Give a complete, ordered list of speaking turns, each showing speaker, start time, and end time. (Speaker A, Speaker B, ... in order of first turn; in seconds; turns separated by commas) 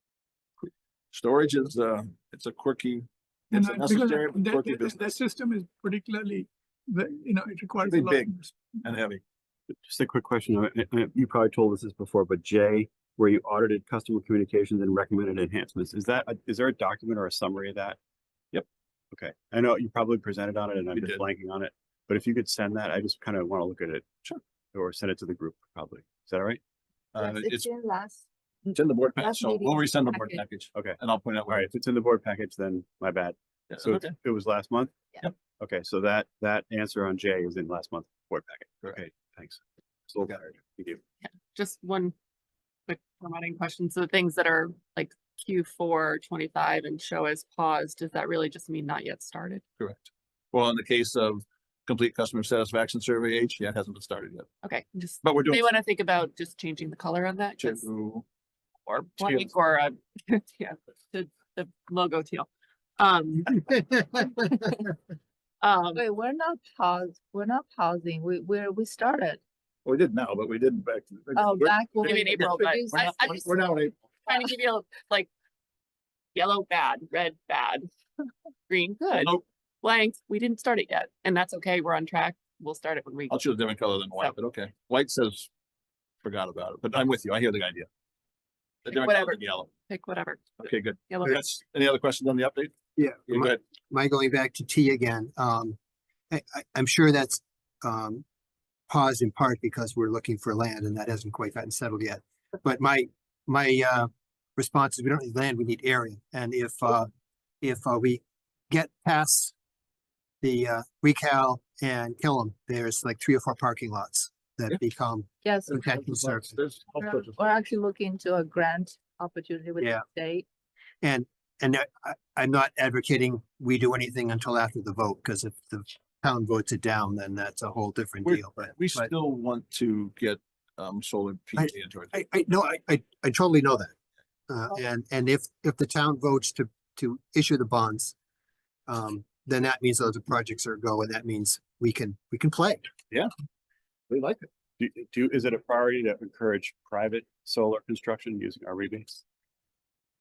Speaker A: 0.6-5.0, Speaker B: 3.5-8.6, Speaker A: 7.8-9.2, Speaker C: 9.8-18.0, Speaker C: 19.1-24.1, Speaker A: 20.9-21.2, Speaker C: 24.7-26.6, Speaker A: 27.1-27.7, Speaker D: 27.2-30.4, Speaker A: 28.7-31.7, Speaker C: 30.7-35.0, Speaker A: 33.7-34.1, Speaker C: 35.6-41.0, Speaker E: 41.5-42.1, Speaker E: 42.9-49.6, Speaker A: 49.8-54.5, Speaker E: 54.6-57.8, Speaker A: 55.2-55.7, Speaker A: 57.6-58.2, Speaker E: 58.9-64.7, Speaker A: 59.2-59.5, Speaker E: 65.6-66.0, Speaker D: 65.9-69.4, Speaker A: 69.8-74.0, Speaker D: 71.3-73.5, Speaker E: 72.0-73.4, Speaker E: 74.2-75.3, Speaker E: 76.3-77.9, Speaker E: 78.7-79.3, Speaker A: 79.1-79.4, Speaker E: 79.8-83.3, Speaker A: 83.3-85.5, Speaker A: 86.2-87.9, Speaker A: 88.8-89.7, Speaker E: 88.9-91.3, Speaker A: 90.6-92.7, Speaker F: 93.0-95.8, Speaker A: 93.3-93.6, Speaker F: 96.3-98.2, Speaker F: 98.9-107.1, Speaker F: 107.6-109.5, Speaker F: 110.4-116.6, Speaker D: 115.4-116.0, Speaker A: 115.7-117.4, Speaker D: 117.0-120.4, Speaker F: 121.0-129.1, Speaker A: 128.2-132.2, Speaker F: 131.6-133.9, Speaker F: 134.5-138.1, Speaker F: 138.9-142.9, Speaker A: 144.1-144.5, Speaker C: 144.8-149.2